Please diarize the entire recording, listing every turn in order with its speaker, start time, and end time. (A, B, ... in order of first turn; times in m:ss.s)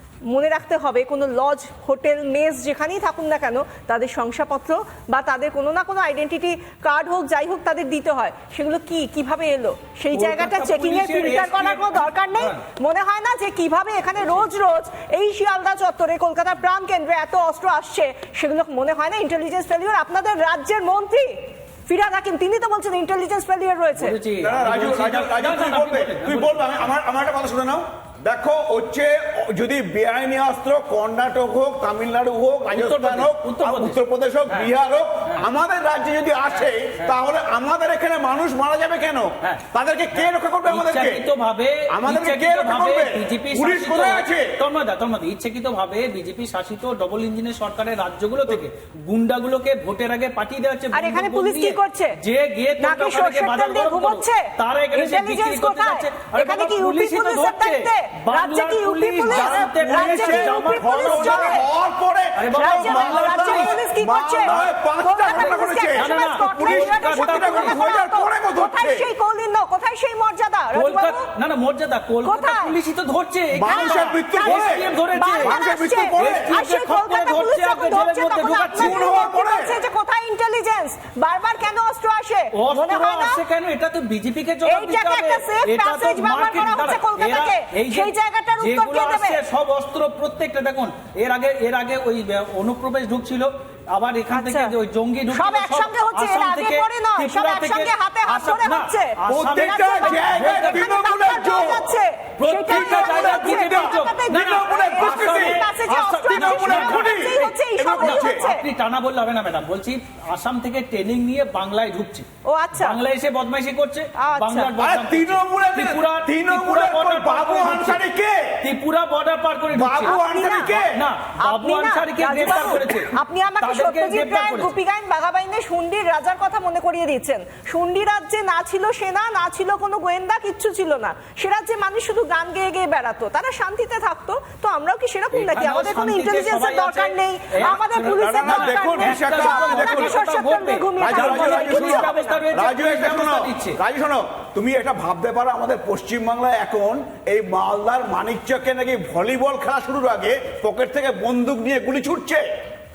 0:00.3-0:24.2 A
0:10.1-0:12.6 B
0:23.9-0:26.8 B
0:24.4-0:41.3 C
0:32.7-0:34.7 B
0:36.6-0:37.2 B
0:39.4-1:01.6 B
0:41.9-0:44.6 C
0:50.9-0:52.2 A
0:52.8-1:01.6 A
0:59.2-1:09.1 C
1:02.4-1:03.8 B
1:02.5-1:11.2 A
1:04.4-1:04.7 B
1:05.3-1:07.8 B
1:10.7-1:15.6 B
1:12.2-1:12.7 A
1:13.5-1:16.5 C
1:13.6-1:23.4 A
1:16.2-1:19.0 B
1:18.8-1:19.8 C
1:22.5-1:40.8 B
1:24.6-1:29.4 A
1:34.3-1:34.7 A
1:35.3-1:48.6 A
1:39.3-1:41.9 C
1:42.4-1:58.0 B
1:42.7-1:45.6 C
1:46.3-1:48.5 C
1:52.4-1:53.0 A
1:54.2-1:54.7 A
1:54.8-1:58.6 C
1:58.6-2:04.7 B
1:59.7-2:01.0 C
2:00.0-2:00.8 A
2:01.4-2:22.4 A
2:15.3-2:23.8 B
2:18.2-2:20.2 C
2:21.0-2:32.5 C